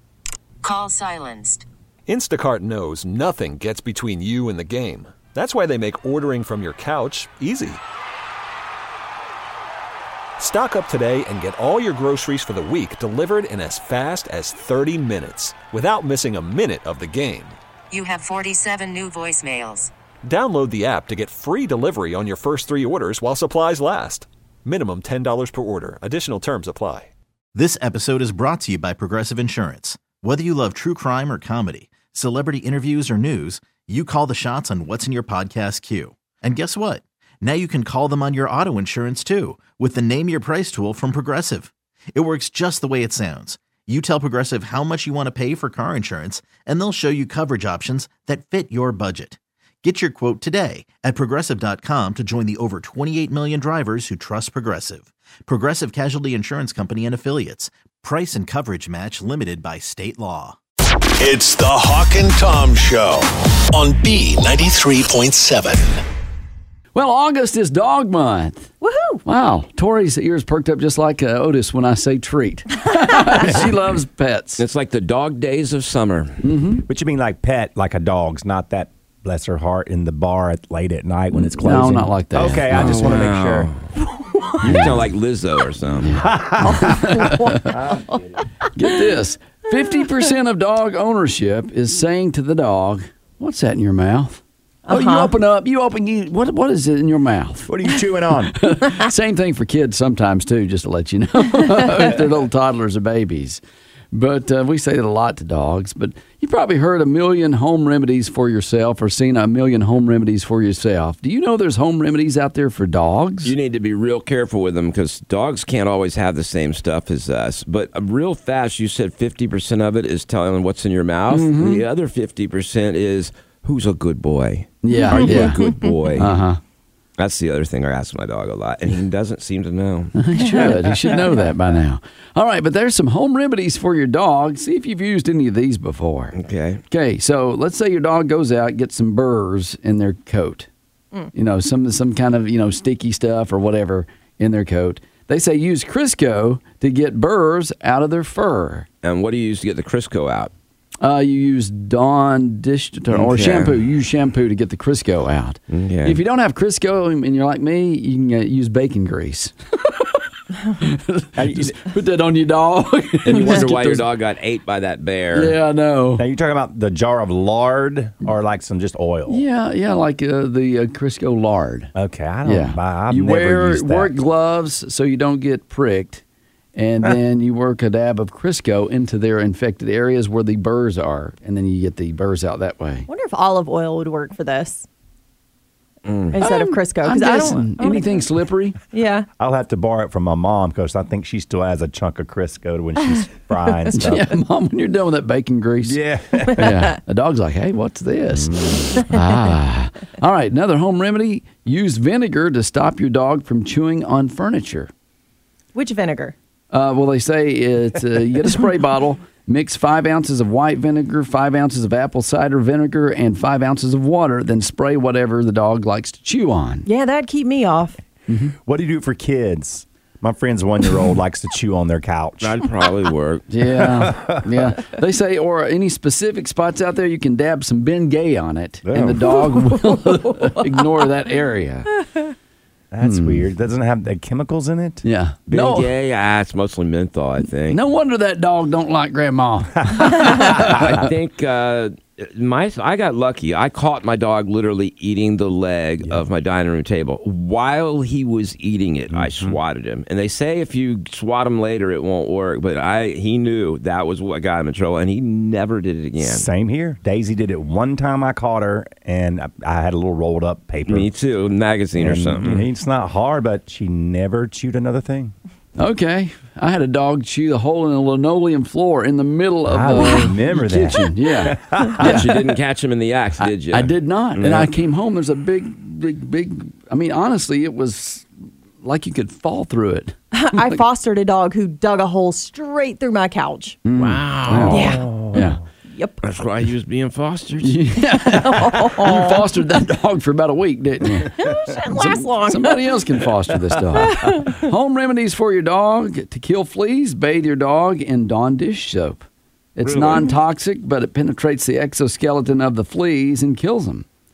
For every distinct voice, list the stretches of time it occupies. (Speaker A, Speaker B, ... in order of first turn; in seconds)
Speaker A: 0.6-1.7, 17.9-19.9
Speaker B: 2.1-7.8, 10.4-17.6, 20.2-27.1
Speaker C: 27.5-60.6
Speaker D: 61.2-63.2, 63.8-65.8
Speaker E: 66.9-68.7, 69.2-74.7, 76.4-76.8, 81.6-83.2, 84.6-85.1, 86.0-87.5, 88.8-97.7, 98.5-103.6, 104.1-113.5, 121.3-121.8, 124.8-125.6, 126.2-126.6, 130.2-136.3, 136.9-140.7, 141.3-148.9, 151.0-164.1, 165.3-166.3, 169.3-171.9, 172.4-176.2, 176.8-183.1, 186.4-188.8, 193.9-196.0, 196.6-204.9, 206.7-216.9, 218.3-218.6, 223.5-232.0, 233.0-233.5, 235.0-235.9, 237.5-241.1, 265.8-272.4, 273.4-278.3, 278.8-280.8, 283.9-285.6, 287.6-291.4, 291.9-304.1
Speaker F: 68.8-69.2, 86.6-88.5, 94.9-95.3, 183.1-184.9, 186.3-188.2, 188.9-189.3, 205.8-206.3, 216.9-218.0, 280.3-283.8, 284.7-285.3, 285.9-286.2, 288.2-289.5, 291.4-292.9, 294.2-294.5
Speaker G: 74.6-76.4, 82.8-83.8, 84.6-86.4, 113.4-126.4, 127.2-130.4, 136.3-136.8, 149.0-150.5, 153.1-153.8, 155.7-156.2, 163.3-165.6, 186.1-186.5, 222.4-223.4, 235.5-237.8, 240.2-256.5, 260.9-262.7, 272.0-274.7, 283.9-285.0, 286.2-287.8, 299.8-300.3
Speaker H: 76.9-83.7, 86.2-87.2, 97.7-98.6, 161.4-161.8, 166.2-169.4, 171.9-174.1, 189.4-194.3, 195.8-196.7, 198.3-199.0, 218.7-222.6, 223.7-224.2, 228.8-229.5, 232.9-235.0, 249.1-249.6, 256.2-261.1, 261.9-265.3, 269.7-272.3, 284.7-285.6